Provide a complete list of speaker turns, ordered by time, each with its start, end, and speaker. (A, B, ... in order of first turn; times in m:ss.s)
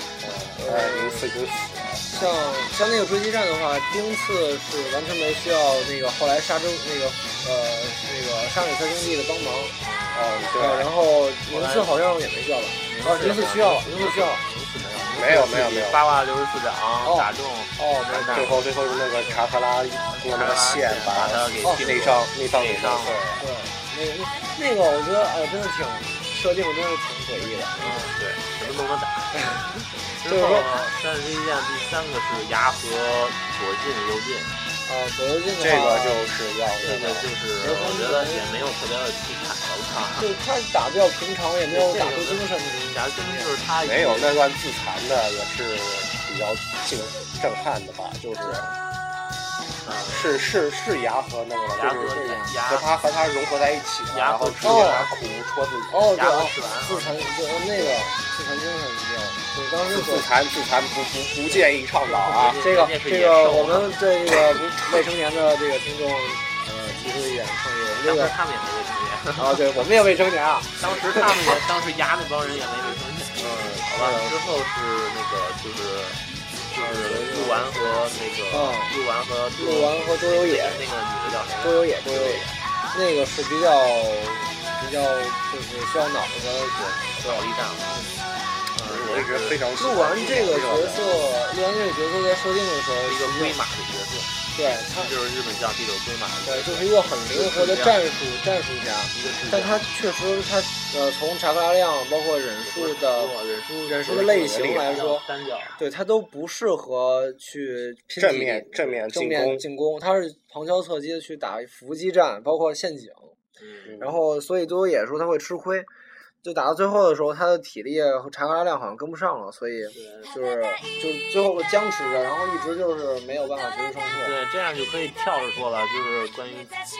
0:00.2-0:02.3 A
0:00.6-0:01.3 B
0:02.1-0:09.7 B
0:09.8-0:10.7 C
0:10.1-0:10.9 A
0:10.5-0:14.4 B
0:11.5-0:11.9 C
0:12.9-0:18.6 C
0:15.1-0:16.0 A
0:17.0-0:18.6 B
0:18.3-0:23.4 A
0:20.1-0:23.2 C
0:21.6-0:21.9 B
0:23.4-0:28.1 B
0:27.7-0:29.4 C
0:29.4-0:30.7 B
0:30.1-0:34.6 C
0:34.8-0:36.2 B
0:35.6-0:37.3 A
0:36.8-0:40.3 C
0:37.6-0:38.5 B
0:40.2-0:43.5 B
0:41.7-0:44.4 C
0:43.8-0:48.6 A
0:48.4-0:48.7 B
0:49.8-0:50.3 C
0:50.1-0:56.1 A
0:51.7-0:52.9 C
0:52.1-0:52.5 B
0:54.1-0:55.1 C
0:54.6-0:55.1 B
0:55.9-1:00.3 B
0:56.1-0:57.3 C
0:57.7-0:58.0 A
0:59.9-1:02.6 A
1:02.2-1:04.0 C
1:02.5-1:08.3 B
1:08.0-1:09.6 C
1:09.4-1:11.3 B
1:10.8-1:22.6 C
1:13.4-1:14.4 B
1:16.8-1:19.0 B
1:19.6-1:20.8 B
1:21.6-1:28.2 B
1:26.7-1:28.0 C
1:28.7-1:29.6 C
1:28.8-1:31.3 A
1:29.8-1:33.5 B
1:33.0-1:34.3 C
1:34.5-1:35.1 B
1:34.9-1:38.0 C
1:36.4-1:43.3 B
1:39.1-1:39.8 C
1:42.6-1:45.8 C
1:43.8-1:45.2 B
1:45.8-1:53.4 B
1:48.2-1:49.6 A
1:53.6-1:54.0 C
1:53.8-1:54.2 A
1:54.0-1:55.9 B
1:56.4-2:04.4 B
1:59.9-2:00.3 C
2:04.1-2:06.7 C